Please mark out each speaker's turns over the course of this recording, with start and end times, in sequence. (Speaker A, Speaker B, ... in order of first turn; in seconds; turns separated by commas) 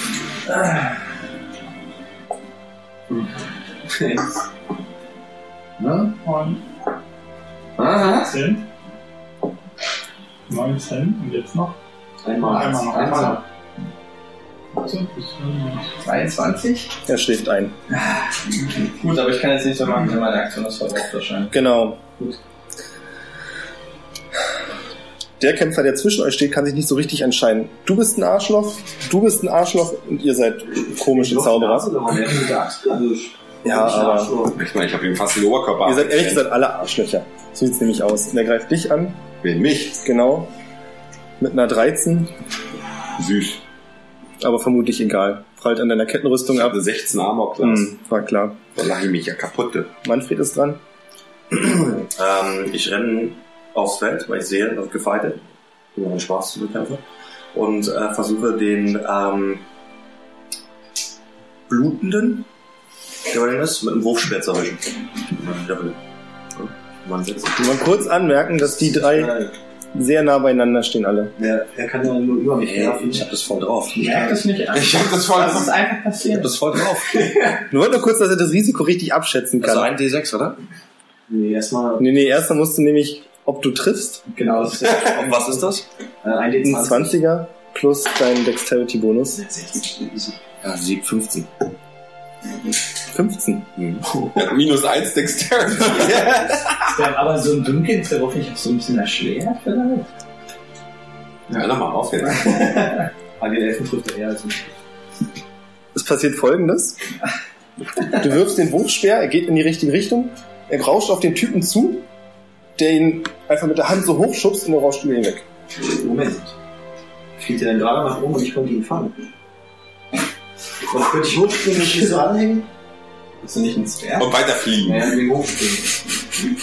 Speaker A: 3.9-4.3, Speaker B: 5.8-6.2, Speaker C: 6.2-6.6, Speaker B: 7.8-8.4, Speaker C: 8.0-8.7, Speaker C: 10.5-11.8, Speaker A: 12.2-13.4, Speaker C: 12.4-13.4, Speaker B: 12.5-13.4, Speaker C: 14.8-15.9, Speaker B: 16.0-16.9, Speaker D: 17.1-17.8, Speaker B: 17.9-18.3, Speaker B: 18.8-21.6, Speaker D: 21.5-22.0, Speaker D: 25.4-31.9, Speaker A: 31.1-34.6, Speaker D: 33.6-34.3, Speaker E: 34.5-36.5, Speaker D: 35.8-39.2, Speaker E: 39.4-40.0, Speaker D: 40.0-40.5, Speaker D: 41.4-42.3, Speaker E: 43.2-43.6, Speaker D: 44.4-46.8, Speaker E: 46.5-47.9, Speaker D: 47.6-48.6, Speaker E: 48.8-49.9, Speaker D: 50.0-50.8, Speaker F: 51.5-55.4, Speaker F: 56.0-57.0, Speaker F: 57.5-59.6, Speaker F: 61.7-62.5, Speaker F: 63.3-66.0, Speaker F: 66.5-67.7, Speaker D: 67.6-69.3, Speaker A: 68.8-69.5, Speaker D: 69.9-71.3, Speaker A: 71.4-73.3, Speaker F: 72.6-74.3, Speaker B: 74.0-76.6, Speaker A: 74.1-74.4, Speaker E: 74.7-75.8, Speaker F: 76.3-77.2, Speaker B: 77.1-77.6, Speaker D: 77.7-79.9, Speaker F: 79.6-80.6, Speaker A: 81.3-82.1, Speaker D: 82.0-84.2, Speaker B: 84.3-85.3, Speaker F: 85.0-85.8, Speaker A: 86.2-87.2, Speaker D: 86.6-89.4, Speaker A: 89.4-90.4, Speaker F: 90.6-91.5, Speaker D: 93.1-93.7, Speaker E: 93.8-96.9, Speaker B: 96.9-100.1, Speaker E: 101.5-102.6, Speaker A: 103.4-104.7, Speaker D: 105.9-107.0, Speaker D: 108.2-112.1, Speaker D: 112.8-115.4, Speaker A: 115.9-116.5, Speaker A: 117.4-119.2, Speaker A: 120.9-122.7, Speaker B: 123.4-125.8, Speaker E: 124.2-125.1, Speaker A: 125.1-125.8